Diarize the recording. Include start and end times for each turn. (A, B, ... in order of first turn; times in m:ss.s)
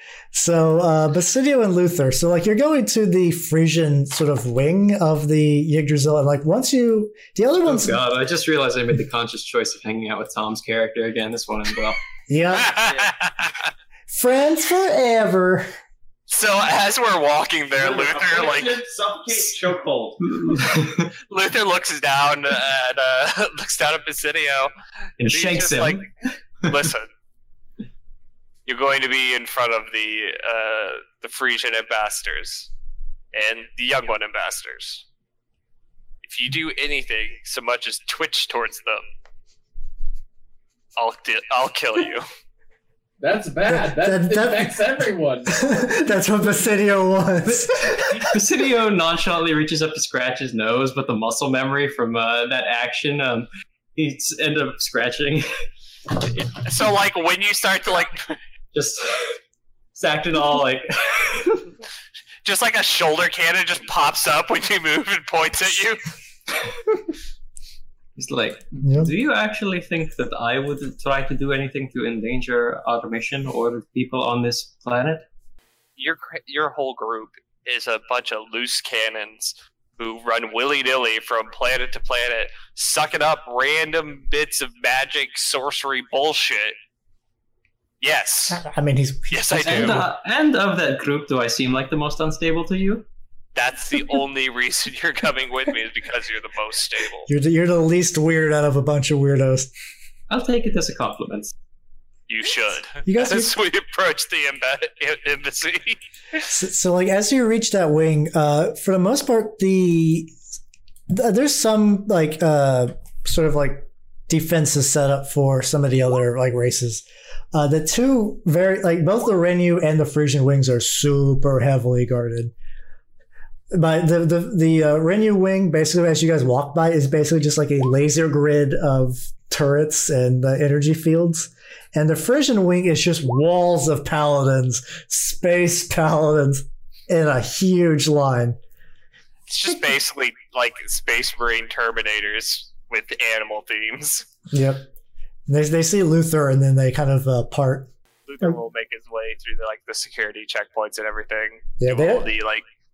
0:00.3-0:08.0 A
0:07.6-0:12.0 B
0:12.3-0:12.7 A
0:12.5-0:13.7 C
0:14.1-0:15.6 A
0:16.3-0:18.8 C
0:17.7-0:20.3 D
0:20.2-0:21.1 B
0:21.3-0:26.1 C
0:25.2-0:26.1 B
0:26.6-0:27.1 C
0:28.6-0:32.7 C
0:33.3-0:35.0 C
0:36.2-0:39.0 C
0:41.0-0:42.2 C
0:43.2-0:45.7 E
0:43.6-0:48.3 A
0:47.4-0:55.5 B
0:56.6-0:58.4 C
0:58.7-0:59.4 B
0:59.9-1:01.7 B
1:02.4-1:06.0 C
1:08.2-1:15.2 B
1:08.8-1:09.1 A
1:16.0-1:26.7 C
1:28.0-1:28.6 C
1:28.5-1:30.1 A
1:29.3-1:30.0 C
1:29.6-1:33.0 B
1:33.5-1:37.3 C
1:37.3-1:39.7 A
1:40.3-1:41.5 B
1:42.3-1:46.4 C
1:43.0-1:43.5 A
1:46.5-1:50.4 A
1:51.1-2:02.5 A
2:03.7-2:18.6 A
2:19.5-2:24.3 C
2:24.5-2:24.9 A
2:25.5-2:27.9 A
2:28.3-2:32.6 C
2:31.8-2:32.3 A